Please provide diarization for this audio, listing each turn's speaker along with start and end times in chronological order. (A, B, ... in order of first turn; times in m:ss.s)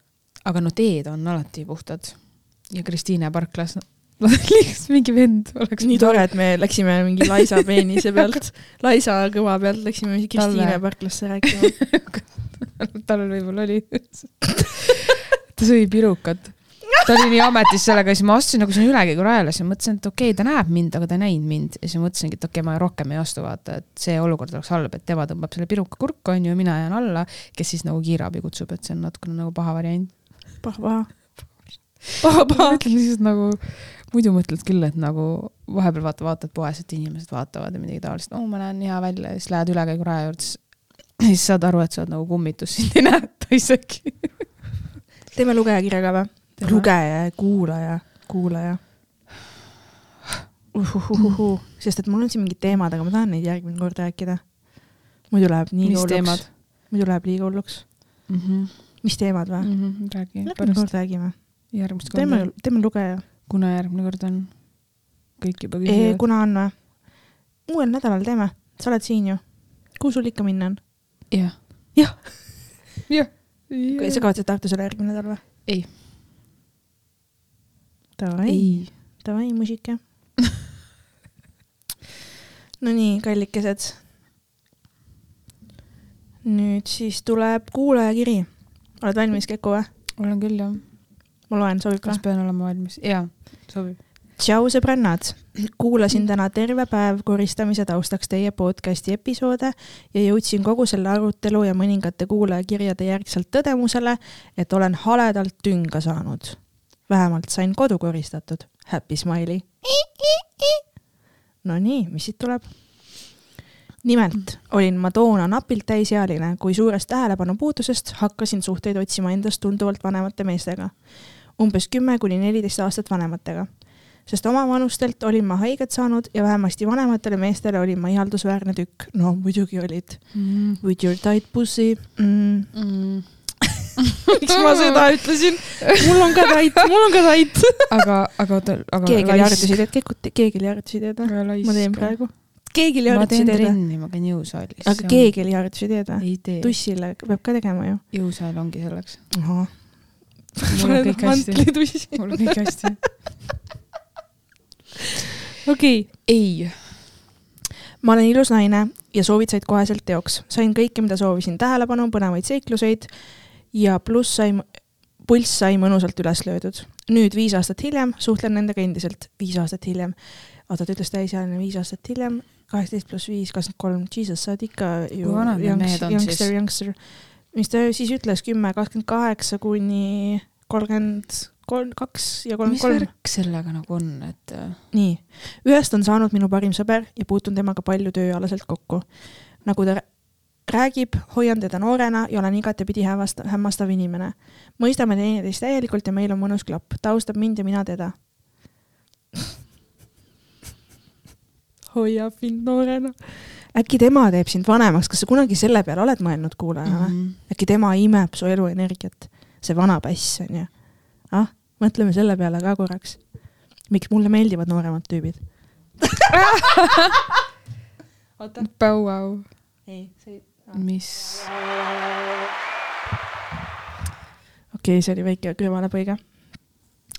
0:00.4-0:06.8 A
0:05.8-0:11.9 B
0:10.4-0:14.9 A
0:15.5-0:30.6 A
0:30.6-0:32.8 B
0:32.4-0:44.6 A
0:45.3-0:48.8 B
0:46.6-0:46.9 A
0:50.7-0:58.3 B
0:55.8-0:56.5 A
0:58.3-1:02.7 A
0:59.0-1:03.2 B
1:03.2-1:06.2 A
1:05.8-1:11.3 B
1:11.3-1:12.2 A
1:11.9-1:13.1 B
1:13.1-1:14.3 A
1:13.9-1:15.4 B
1:18.2-1:20.0 B
1:18.5-1:18.9 A
1:22.8-1:24.0 B
1:26.4-1:29.9 B
1:30.2-1:31.2 A
1:31.4-1:32.2 B
1:32.0-1:34.0 A
1:34.4-1:50.8 B
1:51.6-1:53.4 B
1:54.0-2:13.3 B
2:10.3-2:10.8 A
2:12.7-2:14.0 A
2:14.2-2:17.9 B
2:14.6-2:15.0 A
2:17.9-2:19.9 A
2:19.0-2:23.9 B
2:21.2-2:26.7 A
2:24.8-2:28.0 B
2:28.1-2:29.4 A
2:29.3-2:33.3 B
2:30.7-2:33.3 A
2:35.6-2:36.1 B
2:36.2-2:37.1 A
2:38.0-3:03.1 B
2:55.2-2:56.5 A
3:02.6-3:04.8 A
3:04.9-3:18.3 B
3:21.9-3:36.4 B
3:26.8-3:27.4 A
3:36.3-3:37.2 A
3:38.4-3:38.7 B
3:38.6-3:39.5 A
3:39.8-3:40.9 B
3:40.7-3:41.5 A
3:44.7-3:46.9 B